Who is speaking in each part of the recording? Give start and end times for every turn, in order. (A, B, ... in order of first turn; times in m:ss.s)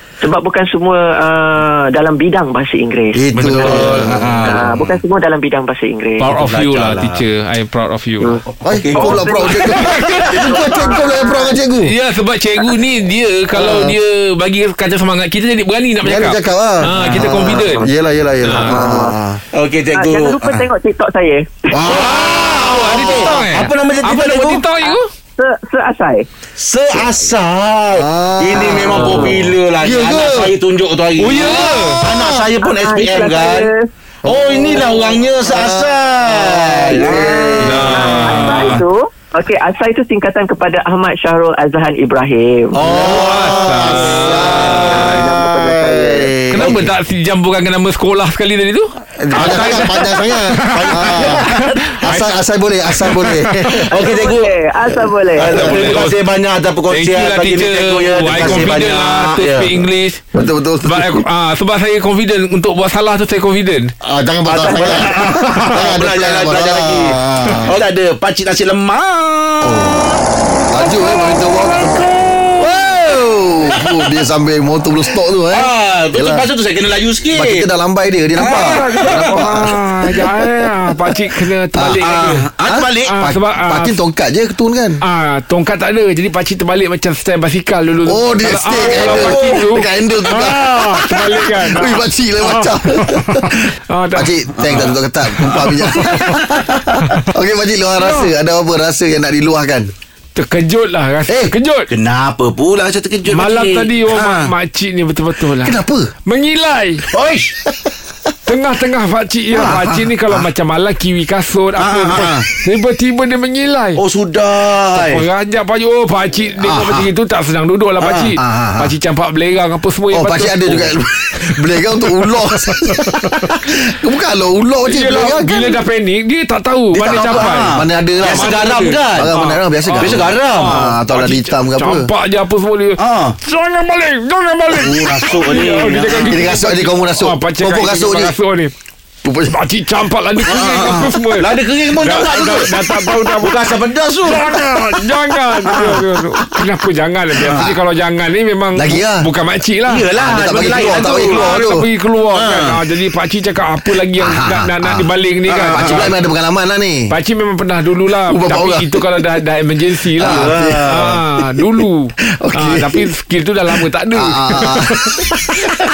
0:00.2-0:06.3 A
0:03.1-0:04.6 B
0:03.4-0:05.0 C
0:06.2-0:08.4 D
0:06.3-0:07.2 C
0:08.5-0:10.1 C
0:08.6-0:11.9 B
0:08.9-0:11.6 A
0:09.8-0:10.3 D
0:11.8-0:17.9 D
0:13.5-0:14.0 B
0:16.0-0:19.4 B
0:17.0-0:17.4 C
0:18.4-0:18.8 D
0:18.6-0:19.2 A
0:19.5-0:20.7 C
0:19.9-0:21.8 A
0:21.7-0:24.6 C
0:21.8-0:25.0 D
0:24.8-0:26.3 A
0:26.6-0:33.7 C
0:28.0-0:30.5 B
0:29.0-0:29.4 A
0:31.2-0:32.1 D
0:32.0-0:32.4 B
0:32.6-0:33.9 A
0:34.2-0:38.8 B
0:34.2-0:38.2 C
0:37.0-0:42.8 A
0:37.6-0:38.8 D
0:42.7-0:44.4 C
0:42.8-0:46.9 B
0:43.0-0:45.2 D
0:44.5-0:46.3 A
0:46.5-0:52.4 D
0:49.2-0:51.4 B
0:49.4-0:49.7 C
0:50.7-0:51.9 C
0:52.0-0:54.0 B
0:53.0-0:53.4 D
0:53.8-0:54.5 C
0:53.9-0:55.8 A
0:55.4-0:59.8 C
0:55.5-0:56.2 D
0:56.9-1:00.2 D
0:58.3-0:58.8 B
1:00.4-1:01.2 B
1:00.8-1:03.9 D
1:04.0-1:07.8 B
1:04.5-1:10.2 C
1:04.7-1:05.1 A
1:09.6-1:12.1 B
1:10.9-1:12.5 D
1:12.6-1:16.4 B
1:15.5-1:17.7 C
1:17.3-1:20.1 B
1:18.4-1:19.7 C
1:18.4-1:22.5 D
1:21.8-1:22.0 B
1:22.0-1:23.2 C
1:22.7-1:25.0 B
1:23.0-1:24.0 D
1:25.0-1:34.3 D
1:28.0-1:39.9 B
1:28.8-1:29.7 C
1:34.6-1:36.4 C
1:38.0-1:38.3 D
1:40.4-1:41.9 D
1:41.3-1:41.6 B
1:41.9-1:44.5 C
1:43.3-1:47.0 D
1:45.6-1:46.1 B
1:47.1-1:47.6 C
1:48.5-1:54.0 D
1:49.5-1:50.5 B
1:51.8-1:52.5 C
1:54.0-1:55.2 C
1:55.0-2:01.0 D
1:56.6-1:57.1 B
1:58.3-1:59.0 B
2:00.1-2:05.8 B
2:02.6-2:03.4 D
2:04.9-2:18.7 D
2:06.9-2:09.4 C
2:07.1-2:12.1 B
2:10.0-2:10.9 C
2:13.0-2:13.4 C
2:14.8-2:15.3 B
2:14.9-2:16.5 C
2:16.1-2:18.4 B
2:19.2-2:19.6 B
2:19.5-2:23.7 D
2:20.5-2:24.8 C
2:24.2-2:30.1 D
2:25.6-2:26.6 C
2:27.5-2:27.8 B
2:28.8-2:29.3 B
2:29.9-2:31.5 C
2:30.2-2:31.9 B
2:30.9-2:36.2 D
2:32.3-2:32.8 C
2:34.2-2:35.1 B
2:35.5-2:36.2 C
2:35.7-2:37.1 B
2:37.1-2:45.2 D
2:38.3-2:39.0 B
2:40.2-2:41.6 B
2:40.2-2:41.2 C
2:42.3-2:43.1 B
2:44.1-2:45.7 B